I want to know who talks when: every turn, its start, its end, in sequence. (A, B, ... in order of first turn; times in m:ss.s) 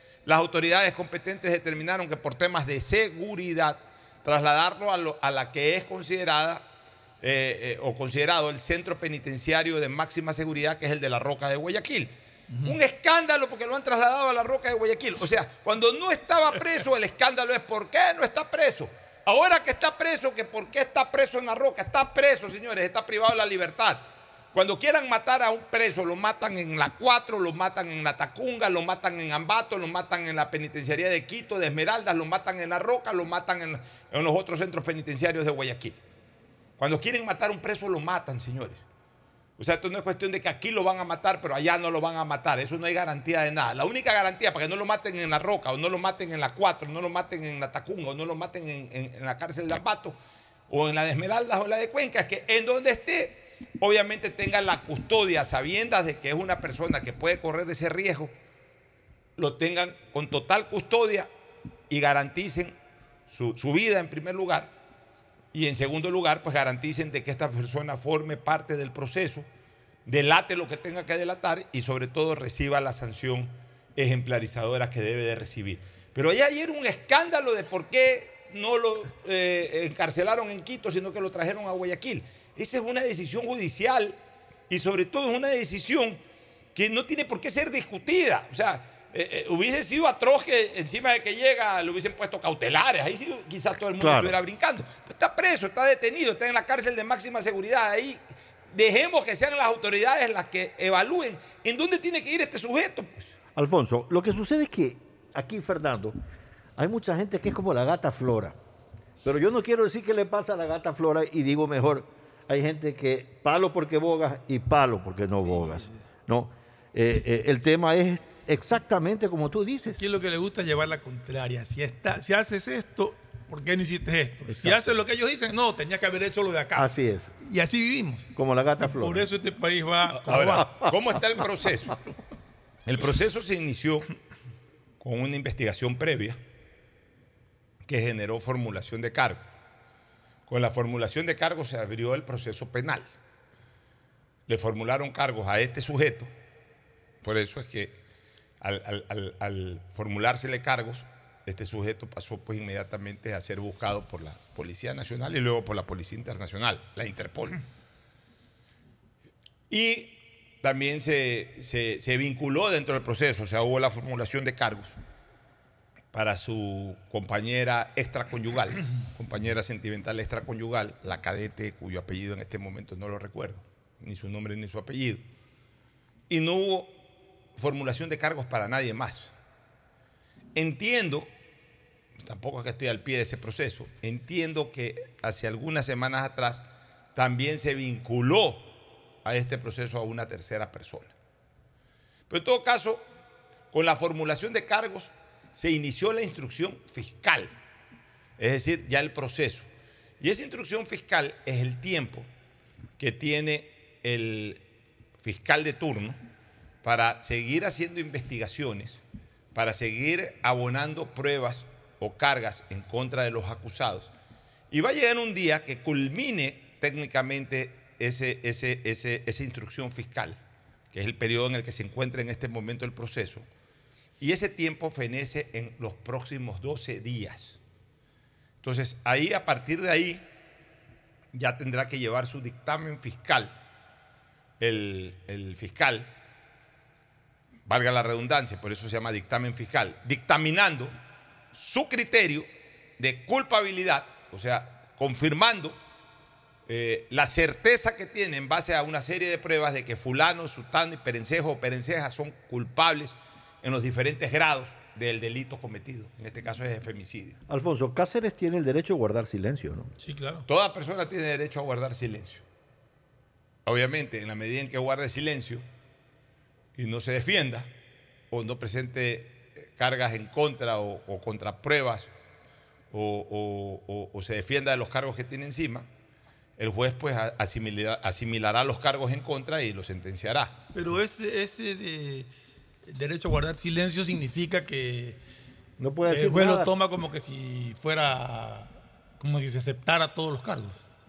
0:00.2-0:06.6 A
0:07.2-0:12.1 A
0:12.5-0:12.8 B
0:12.6-0:36.0 A
0:36.8-0:38.8 A
0:39.6-0:50.2 A
0:50.7-0:58.3 A
0:59.4-1:01.3 A
1:01.9-1:02.7 A
1:03.3-1:04.7 A
1:05.5-1:09.5 A
1:10.0-1:24.2 A
1:24.7-1:26.2 A
1:26.7-1:38.2 A
1:34.0-1:34.3 C
1:38.7-1:43.3 A
1:43.6-1:46.2 C
1:46.8-1:48.6 C
1:49.2-2:00.0 C
1:55.4-1:55.9 B
2:00.0-2:08.3 B
2:04.5-2:04.8 C
2:06.7-2:07.3 C
2:08.3-2:09.2 C
2:08.9-2:10.7 B
2:10.2-2:11.9 A
2:10.3-2:10.9 C
2:12.8-2:14.1 A
2:15.0-2:16.4 A
2:17.8-2:19.4 A
2:20.5-2:23.1 A
2:24.5-2:26.3 A
2:27.2-2:28.0 A
2:28.6-2:37.6 A
2:39.7-2:45.0 A
2:46.1-2:55.2 A
2:56.3-2:57.0 A
2:57.6-2:59.3 A
3:00.5-3:01.3 A
3:02.2-3:08.7 A
3:09.2-3:11.1 A
3:12.3-3:13.0 A
3:13.7-3:17.5 A
3:18.4-3:19.7 A
3:20.2-3:22.3 A
3:23.0-3:24.6 A
3:25.2-3:26.2 A
3:26.8-3:29.0 A
3:29.5-3:34.1 A
3:34.7-3:40.4 A
3:40.9-3:43.4 A
3:44.2-3:47.6 A
3:48.6-3:50.2 A
3:51.3-3:53.5 A
3:54.6-3:56.1 A
3:57.7-4:00.9 A
4:01.5-4:02.5 A
4:03.0-4:05.8 A
4:06.7-4:17.4 A
4:17.5-4:19.9 C
4:20.0-4:20.4 B
4:20.5-4:22.4 A
4:23.6-4:25.6 A
4:26.8-4:27.7 A
4:28.3-4:32.1 A
4:32.9-4:35.9 A
4:36.6-4:40.5 A
4:40.7-4:42.3 B
4:42.9-4:45.2 B
4:45.8-4:46.7 C
4:46.1-4:50.8 B